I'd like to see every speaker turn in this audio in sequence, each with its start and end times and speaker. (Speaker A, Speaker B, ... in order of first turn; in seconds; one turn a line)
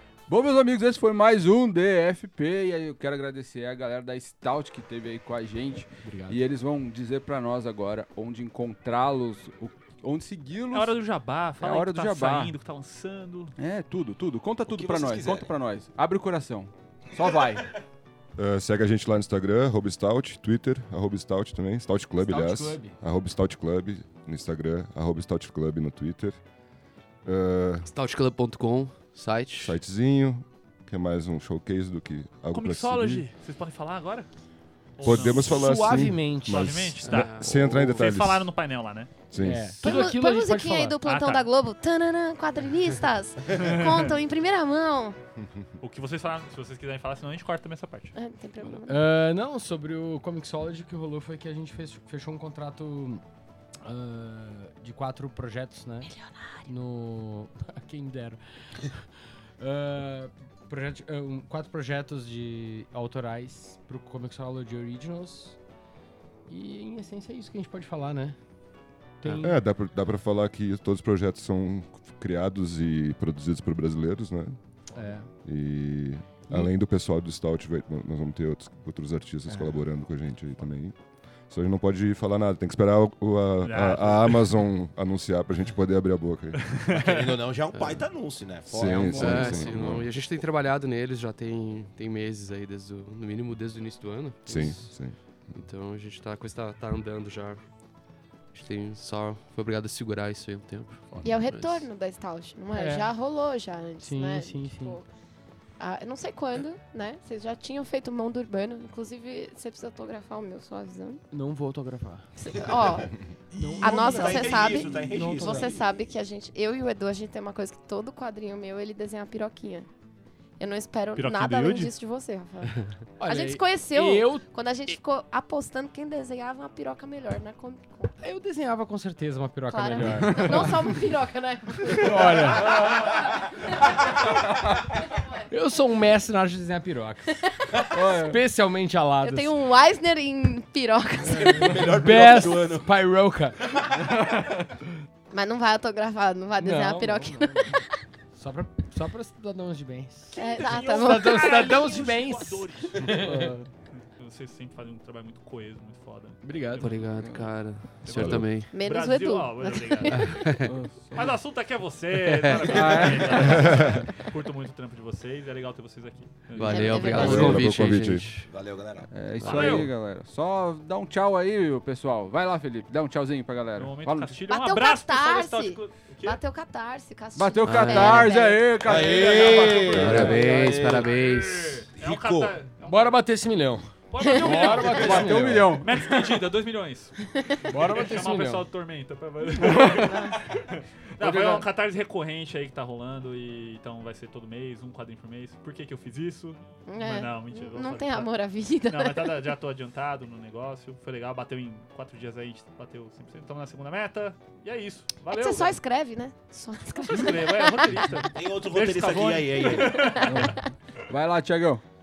Speaker A: 0.3-11.0
Speaker B: 6.0-6.4
Speaker C: 10.7-13.5
Speaker A: 11.6-12.5
Speaker A: 13.6-17.7
Speaker D: 14.7-15.5
Speaker E: 18.4-26.4
Speaker B: 22.2-23.0
Speaker E: 27.2-27.9
Speaker F: 27.8-29.8
Speaker E: 29.6-33.2
Speaker C: 32.5-34.3
Speaker C: 35.0-35.9
Speaker E: 35.0-38.5
Speaker B: 35.1-36.8
Speaker C: 36.5-39.1
Speaker F: 37.0-37.6
Speaker E: 39.3-39.8
Speaker B: 39.4-41.0
Speaker G: 39.8-45.2
Speaker C: 41.0-41.4
Speaker C: 43.5-44.2
Speaker C: 45.8-48.1
Speaker G: 48.1-49.1
Speaker B: 48.9-53.2
Speaker B: 53.8-56.1
Speaker G: 56.1-56.6
Speaker B: 56.6-59.1
Speaker B: 59.6-65.6
Speaker B: 66.5-68.4
Speaker B: 69.2-69.6
Speaker E: 69.4-74.6
Speaker B: 74.9-75.3
Speaker E: 75.4-81.0
Speaker E: 81.5-86.7
Speaker C: 83.6-84.6
Speaker C: 86.6-87.3
Speaker D: 86.9-89.2
Speaker F: 87.7-88.0
Speaker E: 88.7-90.1
Speaker A: 88.8-89.7
Speaker F: 89.1-97.6
Speaker E: 94.5-95.2
Speaker B: 94.5-95.0
Speaker F: 98.5-101.9
Speaker G: 101.2-105.0
Speaker B: 102.7-103.1
Speaker B: 104.0-105.0
Speaker G: 105.8-111.2
Speaker B: 111.3-112.3
Speaker G: 112.4-113.2
Speaker B: 113.5-115.7
Speaker D: 113.8-115.8
Speaker G: 113.8-119.9
Speaker G: 120.6-128.1
Speaker C: 121.2-121.9
Speaker B: 123.2-124.4
Speaker B: 128.2-130.8
Speaker G: 129.7-133.1
Speaker A: 129.9-130.7
Speaker B: 131.9-132.7
Speaker B: 135.5-137.3
Speaker A: 137.9-138.4
Speaker B: 138.1-139.5
Speaker G: 139.2-141.9
Speaker B: 141.2-143.6
Speaker D: 141.4-142.9
Speaker D: 143.7-144.0
Speaker A: 144.2-144.5
Speaker G: 145.3-148.0
Speaker B: 146.6-147.8
Speaker B: 148.3-153.6
Speaker C: 150.3-153.2
Speaker G: 150.4-151.8
Speaker A: 153.1-153.7
Speaker C: 154.0-157.0
Speaker B: 156.4-156.8
Speaker A: 156.6-158.4
Speaker F: 156.8-158.7
Speaker C: 158.0-160.5
Speaker E: 158.1-158.5
Speaker G: 158.7-160.6
Speaker F: 160.1-160.7
Speaker A: 160.6-161.4
Speaker C: 161.1-167.1
Speaker F: 162.3-162.6
Speaker A: 162.7-163.9
Speaker E: 163.6-163.9
Speaker A: 166.5-166.9
Speaker F: 166.6-168.5
Speaker G: 166.7-167.7
Speaker E: 167.0-168.3
Speaker B: 167.1-167.6
Speaker D: 168.5-169.1
Speaker A: 169.1-174.4
Speaker F: 169.4-169.9
Speaker C: 169.4-169.9
Speaker C: 173.8-176.4
Speaker G: 174.5-178.7
Speaker A: 177.3-180.9
Speaker F: 177.6-178.4
Speaker D: 178.8-181.1
Speaker C: 179.1-183.2
Speaker F: 179.9-181.8
Speaker E: 179.9-180.4
Speaker D: 181.9-182.5
Speaker B: 182.8-186.4
Speaker C: 184.1-187.2
Speaker G: 184.2-184.7
Speaker A: 184.8-185.9
Speaker B: 187.7-188.7
Speaker C: 187.7-198.3
Speaker A: 189.6-190.3
Speaker G: 190.1-190.4
Speaker A: 191.2-191.6
Speaker G: 196.9-199.3
Speaker C: 198.9-205.8
Speaker G: 205.3-208.3
Speaker C: 207.1-210.5
Speaker D: 208.3-210.0
Speaker G: 209.7-210.6
Speaker A: 210.2-211.8